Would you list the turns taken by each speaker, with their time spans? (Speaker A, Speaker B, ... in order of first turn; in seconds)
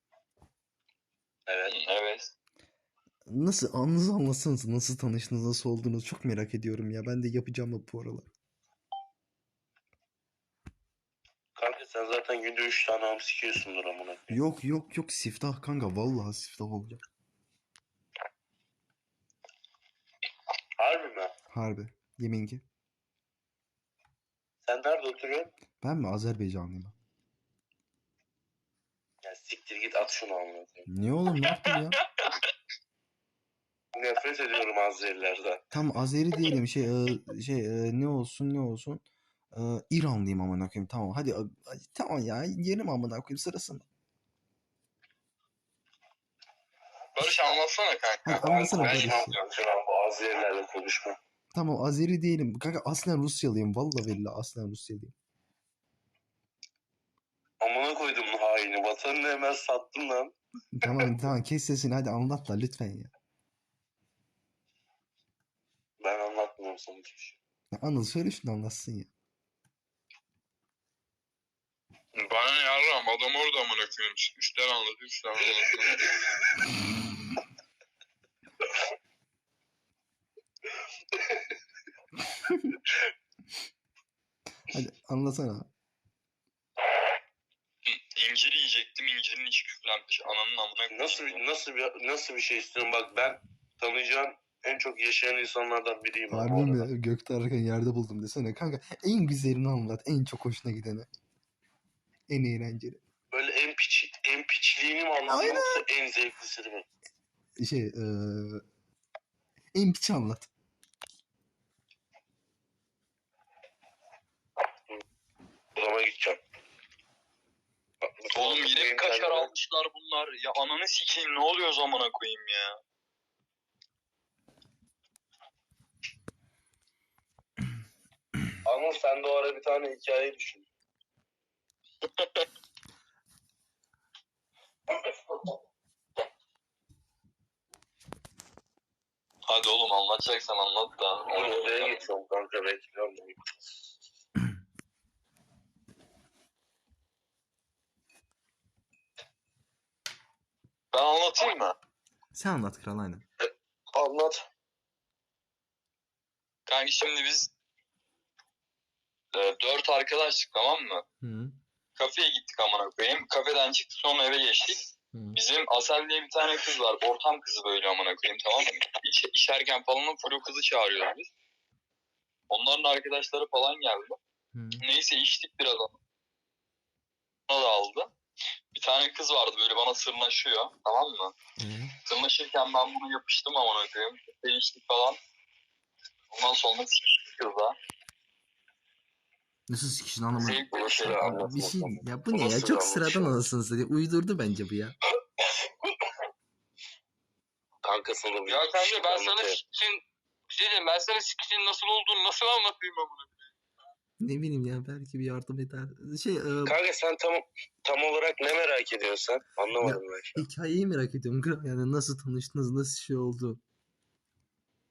Speaker A: 1.5-1.8, 11.6-14.3, 20.8-21.3, 24.7-25.5, 29.2-30.9, 33.9-35.6, 48.4-51.2, 57.6-60.3, 66.0-67.4, 90.9-96.8, 103.3-106.9, 115.8-116.4, 118.0-119.5, 128.7-130.7, 135.0-135.5, 141.3-143.6, 153.4-154.4, 190.7-193.3, 195.4-195.9, 197.8-199.6, 206.7-210.4
Speaker B: 1.7-2.3, 47.2-49.0, 72.2-76.0, 87.8-91.4, 118.3-122.8, 132.0-132.5, 139.4-142.0, 150.9-151.8, 156.7-157.5, 159.3-161.1, 162.0-164.8, 165.3-171.3, 172.5-174.2, 174.8-176.0, 177.5-178.1, 178.7-181.3, 182.1-185.2, 186.3-187.8, 190.4-191.3, 198.5-200.0, 200.5-203.3
Speaker C: 3.3-8.3, 14.3-17.0, 21.5-22.6, 25.8-26.9, 30.9-32.0, 35.7-43.9, 48.2-49.4, 51.5-55.1, 60.7-63.1, 67.7-69.1, 84.7-85.7, 96.3-101.1, 102.3-103.0, 105.3-105.8, 107.6-108.6, 109.7-110.5, 152.3-153.2, 161.2-161.5, 165.1-165.4, 174.6-174.8, 181.6-182.0, 189.7-194.9, 204.2-206.8, 209.8-213.6